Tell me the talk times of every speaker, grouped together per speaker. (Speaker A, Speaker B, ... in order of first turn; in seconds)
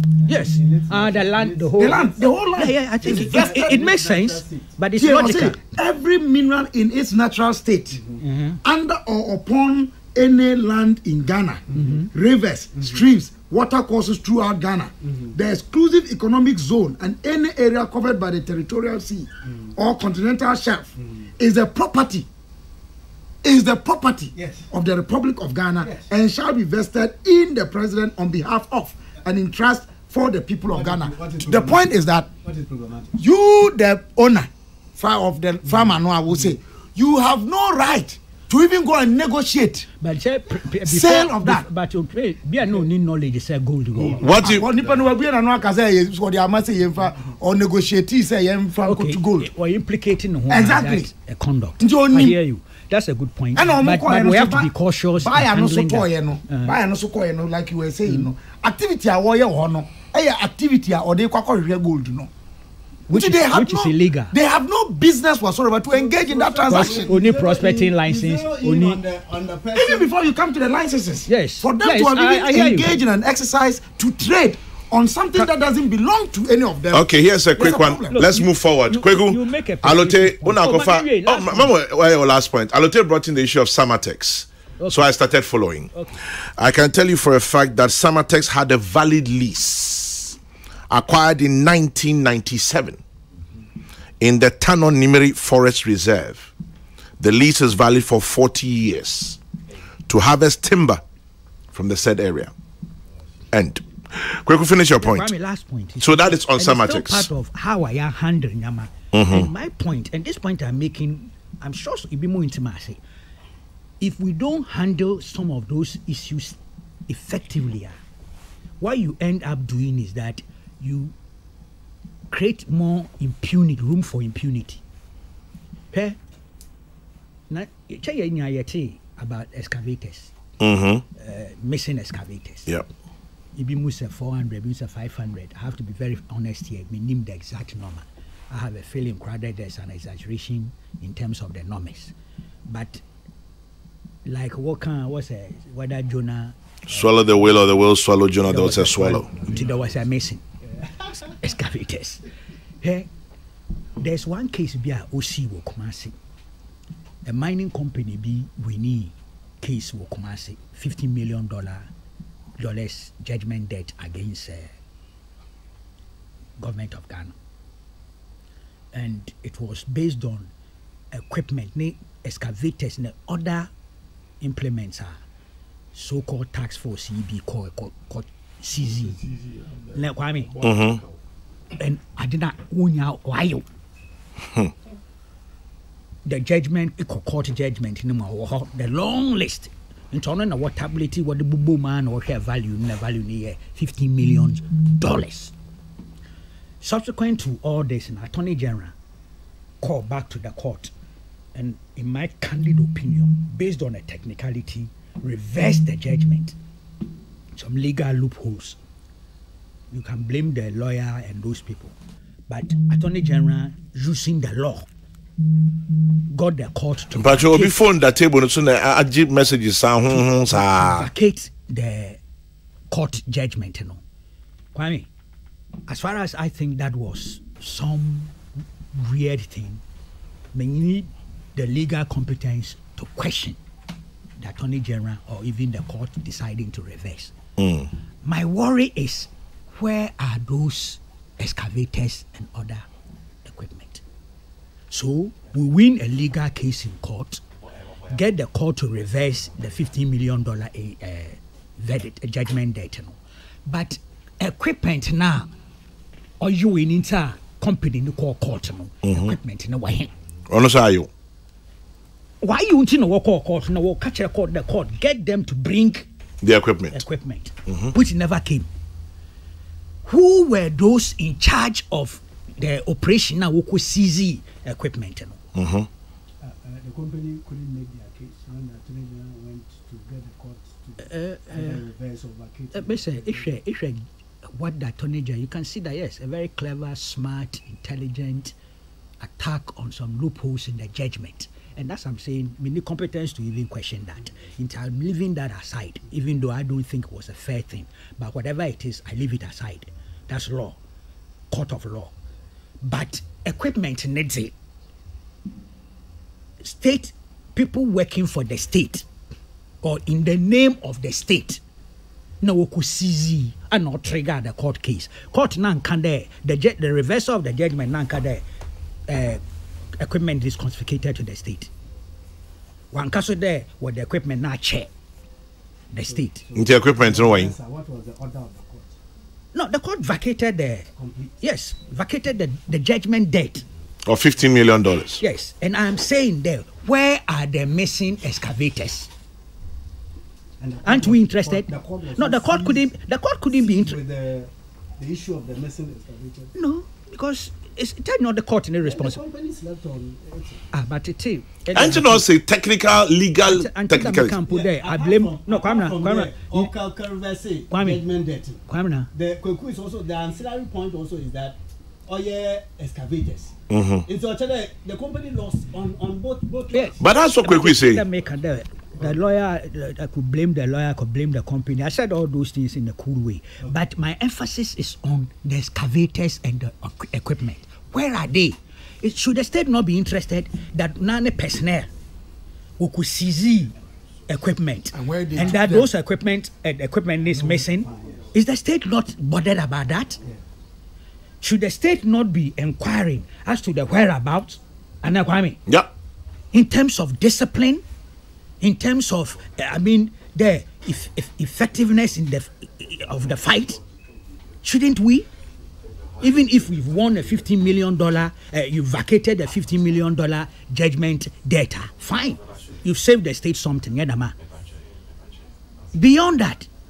Speaker A: 0.2-2.2, 3.0-4.8, 7.9-8.2, 11.7-12.1, 12.8-13.0, 15.0-15.4, 19.4-19.7, 21.0-21.3, 24.3-24.7, 25.8-26.1, 30.7-33.2, 35.6-36.5, 44.0-45.0, 65.9-70.1, 150.8-151.4, 276.4-283.5, 326.0-329.0, 331.0-331.4, 340.6-342.9, 343.5-346.5, 348.8-350.7, 354.4-363.5, 364.1-367.1, 387.4-388.3
Speaker B: 0.3-5.6, 8.2-8.6, 11.7-12.1, 40.0-44.4, 48.8-56.8, 63.1-64.4, 66.7-69.0, 71.3-73.0, 77.6-81.7, 84.8-85.1, 85.9-86.2, 105.0-113.0, 114.0-118.0, 118.8-121.2, 122.3-124.8, 125.9-126.2, 127.5-130.3, 131.2-132.7, 133.6-142.1, 142.7-143.0, 144.2-147.5, 148.4-150.4, 151.4-152.2, 152.8-153.1, 154.0-156.2, 157.2-161.9, 162.6-164.7, 166.6-167.4, 168.9-170.5, 171.1-173.7, 174.4-175.2, 175.9-179.2, 179.9-180.7, 181.8-183.7, 186.2-195.6, 196.8-198.9, 199.8-200.9, 201.6-206.6, 207.6-208.8, 209.9-212.0, 212.5-214.9, 216.3-217.8, 220.1-222.2, 222.9-224.0, 224.7-225.1, 225.9-228.3, 228.9-229.8, 230.5-233.6, 234.4-237.3, 238.2-242.8, 243.4-244.0, 244.9-247.4, 248.1-255.5, 256.4-260.1, 262.4-266.1, 266.9-268.7, 270.1-275.4, 281.0-281.8, 282.7-284.0, 284.6-288.6, 289.2-300.8, 301.5-302.1, 302.8-304.5, 306.6-309.1, 309.8-311.6, 312.4-318.4, 319.1-319.4, 320.0-321.7, 322.9-324.9, 325.9-326.4, 329.5-330.9, 331.4-333.6, 335.2-339.1, 340.9-344.0, 346.6-349.2, 350.7-352.3, 353.4-356.7, 357.7-358.0, 358.7-359.1, 366.7-381.9, 382.8-383.7, 384.3-390.2, 391.4-395.6, 396.5-397.8, 398.6-403.8, 404.6-405.3, 406.2-414.3, 415.9-416.7
Speaker C: 1.8-3.8, 5.0-8.0, 8.6-22.3, 23.4-32.3, 33.2-39.9, 40.9-41.7, 44.4-49.5, 50.5-51.1, 51.8-52.4, 53.5-62.3, 63.1-67.2, 69.7-78.2, 384.9-385.9
Speaker D: 44.2-44.7, 76.9-85.9, 86.6-90.4, 90.9-93.0, 94.2-96.5, 97.2-99.4, 100.1-101.0, 101.7-102.5, 103.5-105.3, 106.0-107.3, 109.1-109.5, 130.6-131.0, 146.9-149.3, 180.6-181.0, 217.2-221.1, 237.6-237.9, 259.0-259.4, 260.5-261.1, 266.4-267.0, 275.6-275.9, 326.6-327.5, 334.1-335.2, 351.7-354.4, 363.7-364.1, 367.0-368.0